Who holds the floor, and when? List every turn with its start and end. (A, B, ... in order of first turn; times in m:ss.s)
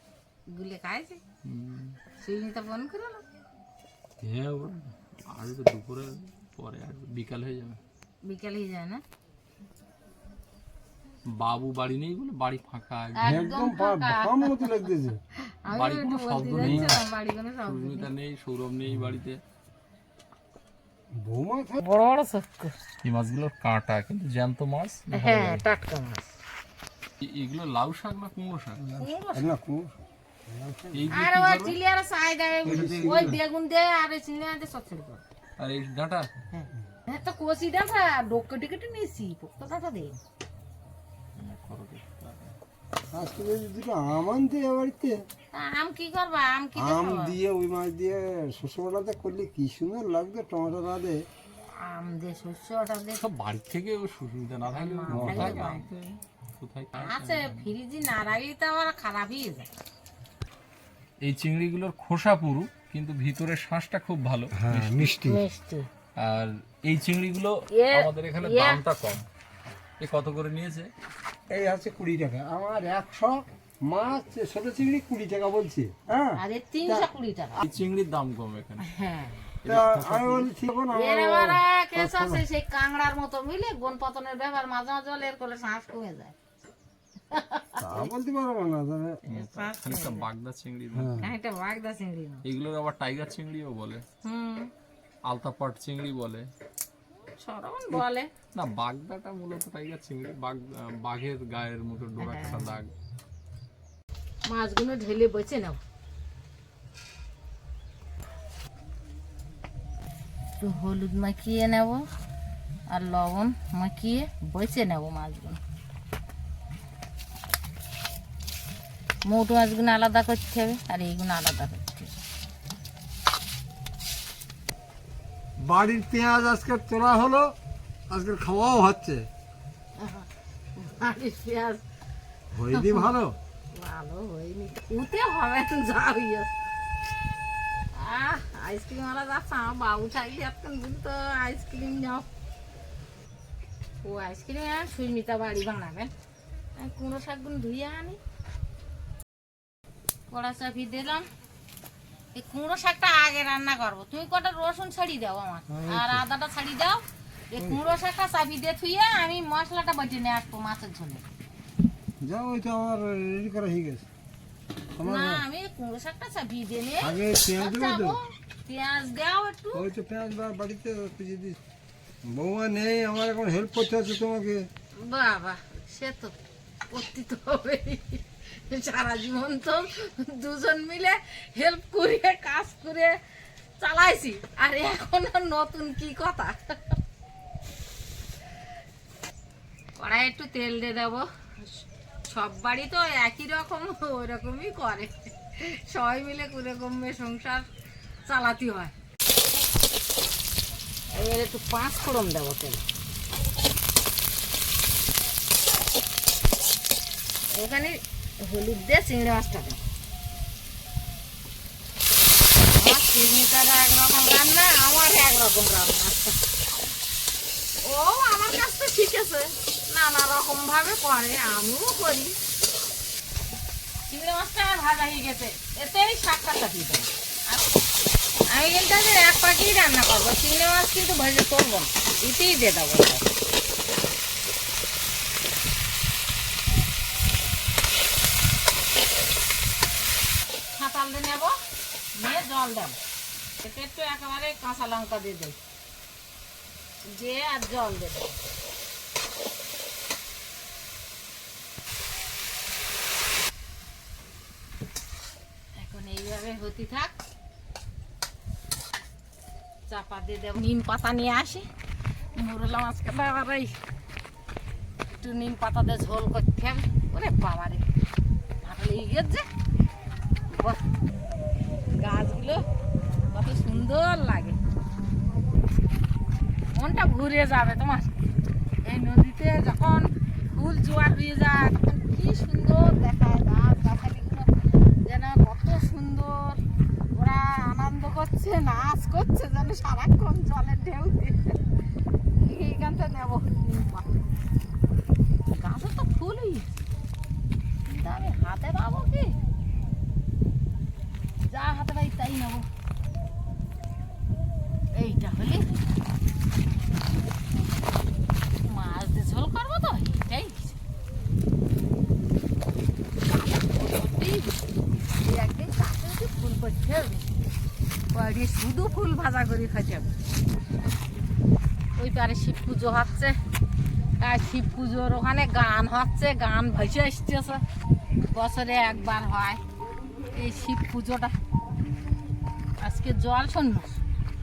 0:00.5-0:01.2 A
0:01.4-0:02.0 B
0:02.2-0:03.2 A
0:04.2-0:07.8 B
0:08.2-0:09.0 A
0:11.3-0:13.5 B
0:13.2-0:14.8 A
0:13.2-0:15.2 C
0:15.4-0:18.1 A
0:15.7-0:17.0 B
0:16.6-0:17.0 C
0:17.7-0:19.4 B
0:21.1-0:21.8 C
0:21.8-0:22.7 A
0:23.0-0:25.6 B
0:25.1-0:26.3 A
0:27.2-0:28.8 B
0:28.8-0:31.3 C
0:29.0-0:29.6 A
0:30.9-0:31.8 B
0:31.1-0:35.2 A
0:32.6-0:33.4 C
0:32.7-0:33.4 B
0:35.6-0:36.3 B
0:36.5-0:40.2 A
0:41.4-0:42.5 B
0:43.1-0:45.3 C
0:45.5-0:47.4 A
0:46.8-0:51.2 C
0:51.8-0:53.2 A
0:53.2-0:57.7 B
0:54.7-0:55.9 A
0:55.1-0:55.7 C
0:57.0-0:59.7 A
1:01.2-1:05.2 B
1:04.5-1:05.4 C
1:05.2-1:05.9 A
1:06.2-1:09.2 B
1:07.7-1:08.8 A
1:10.0-1:10.9 B
1:11.5-1:17.1 C
1:16.4-1:17.6 A
1:17.6-1:18.9 B
1:18.8-1:19.5 A
1:19.6-1:20.5 B
1:19.7-1:22.4 C
1:20.9-1:26.4 A
1:27.3-1:28.1 A
1:27.8-1:29.2 C
1:29.2-1:30.3 A
1:29.3-1:31.3 B
1:30.9-1:31.3 C
1:31.2-1:32.4 A
1:32.4-1:34.0 B
1:34.2-1:34.7 A
1:35.3-1:36.5 B
1:37.4-1:38.3 A
1:37.9-1:42.9 B
1:42.2-1:42.8 A
1:44.5-1:45.8 A
1:50.6-1:52.1 A
1:52.9-1:55.6 A
1:59.2-2:02.1 A
2:05.6-2:07.6 C
2:08.1-2:09.3 C
2:10.0-2:11.8 A
2:12.5-2:13.4 C
2:12.7-2:13.1 A
2:13.7-2:16.5 A
2:17.9-2:22.3 A
2:24.0-2:26.1 A
2:26.8-2:28.2 A
2:30.3-2:31.3 A
2:32.3-2:41.2 A
2:35.7-2:36.2 C
2:37.6-2:37.9 C
2:42.2-2:44.1 C
2:45.0-2:45.4 C
2:45.0-2:49.9 A
2:47.0-2:48.2 C
2:49.7-2:51.6 C
2:52.3-2:54.7 C
2:55.0-2:56.4 A
2:56.9-3:03.2 A
3:03.8-3:07.0 A
3:10.0-3:17.7 A
3:18.3-3:18.9 A
3:21.1-3:22.8 A
3:27.5-3:29.8 A
3:32.8-3:36.4 A
3:37.8-3:42.4 A
3:44.1-3:47.7 A
3:48.5-3:53.4 A
4:00.8-4:01.6 A
4:02.2-4:03.0 A
4:03.6-4:05.6 A
4:07.0-4:08.4 A
4:15.8-4:17.1 A
4:19.9-4:21.7 A
4:22.4-4:23.8 A
4:25.2-4:27.8 A
4:28.6-4:29.5 A
4:30.5-4:30.8 A
4:31.9-4:32.6 A
4:33.3-4:34.6 A
4:36.7-4:38.2 A
4:38.8-4:46.6 A
4:47.1-4:51.6 A
4:52.4-4:54.2 A
4:55.5-4:56.7 A
4:57.9-4:59.4 A
5:01.5-5:02.7 A
5:04.9-5:05.8 A
5:08.6-5:10.8 A
5:13.3-5:14.6 A
5:15.2-5:17.3 A
5:18.1-5:20.1 A
5:22.0-5:23.4 A
5:24.2-5:27.6 A
5:28.3-5:29.6 A
5:30.3-5:31.4 A
5:32.8-5:34.0 A